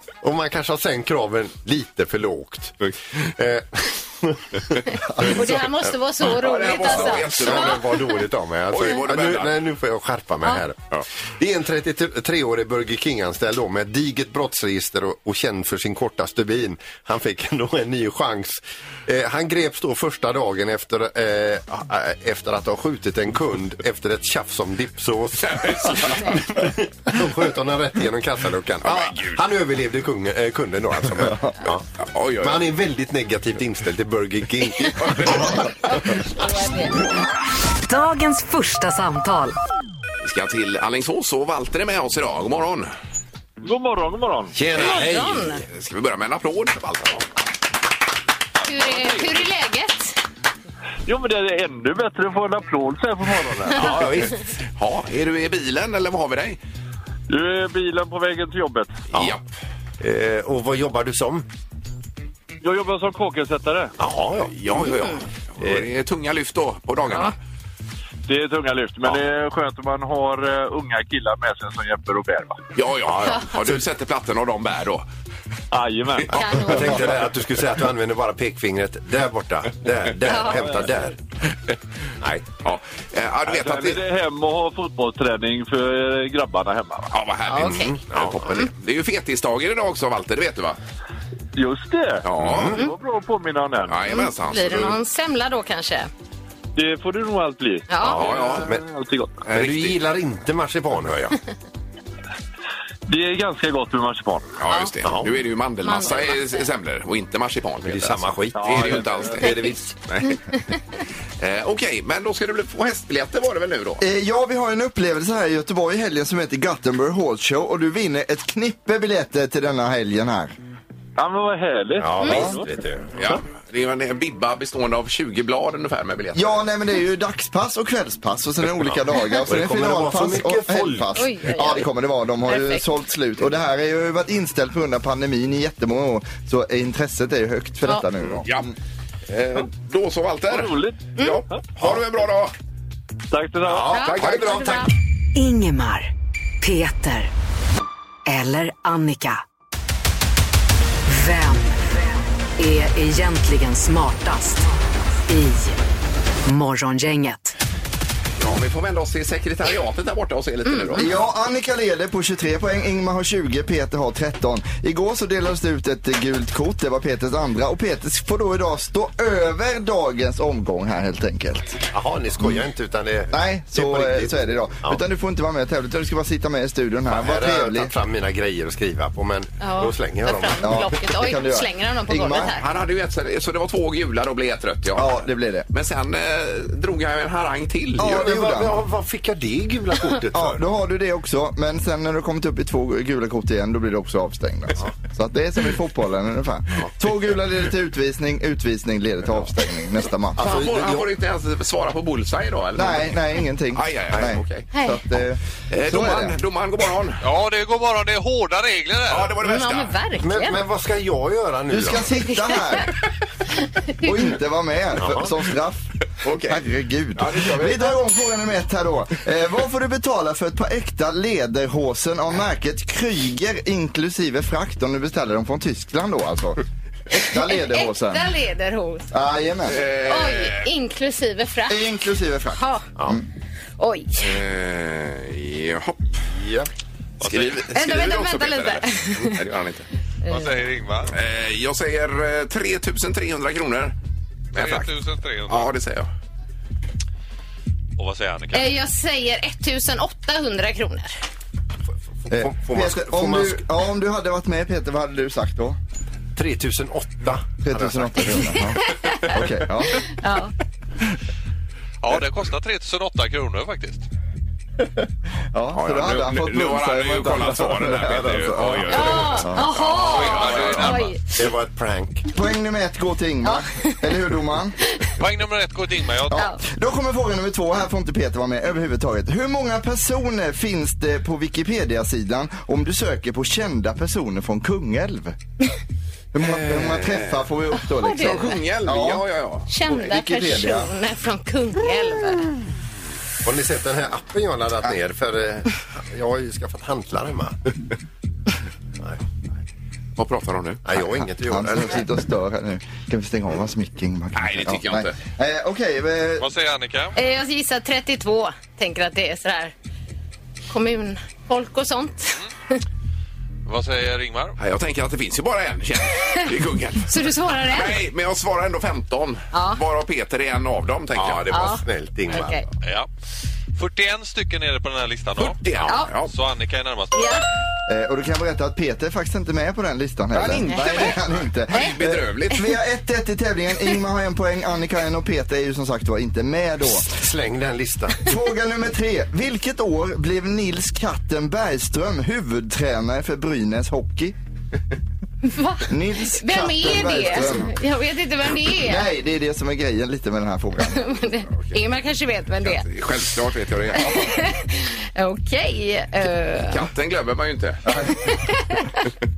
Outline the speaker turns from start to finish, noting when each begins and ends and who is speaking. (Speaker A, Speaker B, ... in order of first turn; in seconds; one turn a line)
Speaker A: 0.2-5.6
Speaker B: 5.2-8.1
Speaker C: 6.2-7.9
Speaker A: 6.9-31.9
Speaker C: 8.7-9.6
Speaker C: 25.4-26.4
Speaker B: 26.2-26.4
Speaker C: 28.8-29.4
Speaker C: 32.0-32.7
Speaker A: 32.4-35.6
Speaker C: 34.8-35.7
Speaker B: 35.7-37.0
Speaker D: 37.9-39.5
Speaker C: 40.2-42.9
Speaker E: 43.6-44.5
Speaker A: 44.5-45.6
Speaker B: 44.7-45.6
Speaker C: 45.7-47.3
Speaker B: 48.6-50.2
Speaker E: 51.1-53.9
Speaker A: 53.7-54.4
Speaker C: 54.8-56.6
Speaker E: 57.3-59.0
Speaker C: 59.1-59.5
Speaker A: 60.0-61.4
Speaker E: 62.6-63.9
Speaker A: 64.0-64.6
Speaker C: 64.5-67.3
Speaker A: 65.6-65.8
Speaker E: 68.3-72.6
Speaker C: 72.7-75.0
Speaker A: 73.0-73.8
Speaker E: 75.7-77.0
Speaker A: 76.3-81.1
Speaker B: 76.3-76.9
Speaker B: 80.3-81.0
Speaker A: 82.2-82.5
Speaker C: 82.6-84.0
Speaker E: 83.5-87.1
Speaker C: 87.1-90.8
Speaker B: 87.5-88.0
Speaker A: 87.6-88.6
Speaker E: 91.5-94.0
Speaker C: 92.2-92.8
Speaker A: 92.4-92.8
Speaker C: 93.8-94.9
Speaker B: 94.0-96.1
Speaker E: 96.8-99.5
Speaker B: 97.9-98.4
Speaker C: 98.0-98.7
Speaker A: 98.1-98.8
Speaker C: 99.5-100.0
Speaker A: 99.5-101.4
Speaker E: 103.1-104.5
Speaker C: 104.6-110.6
Speaker B: 104.7-104.9
Speaker A: 105.0-105.4
Speaker B: 105.8-106.6
Speaker A: 107.8-109.9
Speaker E: 108.5-109.4
Speaker B: 109.5-109.7
Speaker C: 111.4-114.0
Speaker F: 114.0-120.5
Speaker E: 121.2-122.7
Speaker A: 122.0-123.3
Speaker C: 123.2-126.6
Speaker F: 126.3-138.5
Speaker A: 129.4-131.3
Speaker B: 131.1-131.9
Speaker B: 132.4-132.8
Speaker C: 138.4-138.7
Speaker C: 139.3-142.5
Speaker E: 140.5-141.6
Speaker E: 143.3-143.9
Speaker A: 143.6-144.9
Speaker B: 143.9-144.9
Speaker C: 144.0-144.8
Speaker D: 145.3-146.1
Speaker D: 146.6-147.3
Speaker D: 148.2-149.4
Speaker D: 151.1-152.0
Speaker D: 152.6-154.6
Speaker D: 155.3-155.8
Speaker D: 156.4-157.5
Speaker C: 158.4-161.2
Speaker B: 160.7-161.0
Speaker F: 160.9-171.8
Speaker A: 171.8-175.0
Speaker F: 173.3-177.9
Speaker A: 177.1-181.0
Speaker B: 179.6-182.7
Speaker F: 180.6-182.5
Speaker C: 182.6-188.3
Speaker F: 184.9-185.7
Speaker A: 188.0-190.6
Speaker F: 188.0-188.8
Speaker F: 190.3-200.4
Speaker A: 200.3-201.1
Speaker C: 200.4-204.7
Speaker F: 202.8-206.3
Speaker B: 204.7-205.0
Speaker C: 205.7-207.2
Speaker G: 207.2-209.4
Speaker C: 209.1-209.9
Speaker B: 209.4-210.6
Speaker A: 210.2-212.2
Speaker F: 211.7-213.0
Speaker B: 212.3-212.8
Speaker B: 213.6-214.1
Speaker F: 214.0-215.9
Speaker A: 215.0-215.3
Speaker C: 216.2-216.6
Speaker F: 216.4-228.3
Speaker C: 217.1-217.9
Speaker B: 227.4-229.1
Speaker F: 229.1-229.8
Speaker C: 229.7-230.7
Speaker B: 230.0-231.8
Speaker F: 231.7-233.2
Speaker B: 232.5-232.8
Speaker B: 233.8-234.3
Speaker C: 234.2-236.2
Speaker A: 236.3-236.7
Speaker G: 237.2-237.7
Speaker C: 237.2-239.9
Speaker B: 237.7-239.4
Speaker B: 240.2-240.5
Speaker G: 240.3-241.1
Speaker C: 241.1-243.9
Speaker C: 244.5-244.9
Speaker G: 244.5-245.7
Speaker C: 245.5-246.1
Speaker G: 248.0-248.7
Speaker B: 248.5-251.1
Speaker A: 252.2-253.6
Speaker F: 252.3-255.8
Speaker A: 256.4-258.6
Speaker F: 257.6-260.2
Speaker B: 258.5-259.3
Speaker B: 259.9-260.5
Speaker G: 262.0-264.0
Speaker F: 265.5-269.7
Speaker C: 265.7-271.0
Speaker B: 268.9-271.2
Speaker G: 270.1-271.0
Speaker A: 271.2-272.3
Speaker F: 272.3-274.8
Speaker B: 273.4-274.1
Speaker G: 275.2-276.5
Speaker F: 276.3-285.4
Speaker B: 276.3-276.6
Speaker F: 286.3-289.2
Speaker C: 286.4-287.5
Speaker B: 288.0-288.6
Speaker C: 288.2-289.7
Speaker B: 289.7-292.5
Speaker F: 289.8-290.9
Speaker A: 293.4-297.6
Speaker C: 300.2-300.8
Speaker A: 300.8-302.0
Speaker F: 301.4-306.5
Speaker C: 304.3-305.1
Speaker G: 306.4-307.1
Speaker B: 307.1-309.7
Speaker B: 310.7-312.8
Speaker G: 313.6-314.6
Speaker C: 314.6-321.5
Speaker B: 317.1-317.9
Speaker B: 319.5-319.8
Speaker A: 321.1-322.6
Speaker B: 321.5-322.6
Speaker G: 322.8-323.1
Speaker G: 323.7-327.3
Speaker C: 325.4-326.3
Speaker B: 327.1-327.4
Speaker F: 327.9-337.1
Speaker C: 330.3-331.2
Speaker B: 330.7-331.1
Speaker C: 331.7-332.7
Speaker A: 337.0-338.3
Speaker F: 338.2-344.3
Speaker B: 345.4-349.0
Speaker F: 345.9-347.7
Speaker F: 348.7-351.0
Speaker B: 350.9-352.9
Speaker C: 352.6-354.4
Speaker B: 353.9-356.8
Speaker C: 356.7-357.8
Speaker F: 357.9-358.2
Speaker B: 358.2-359.1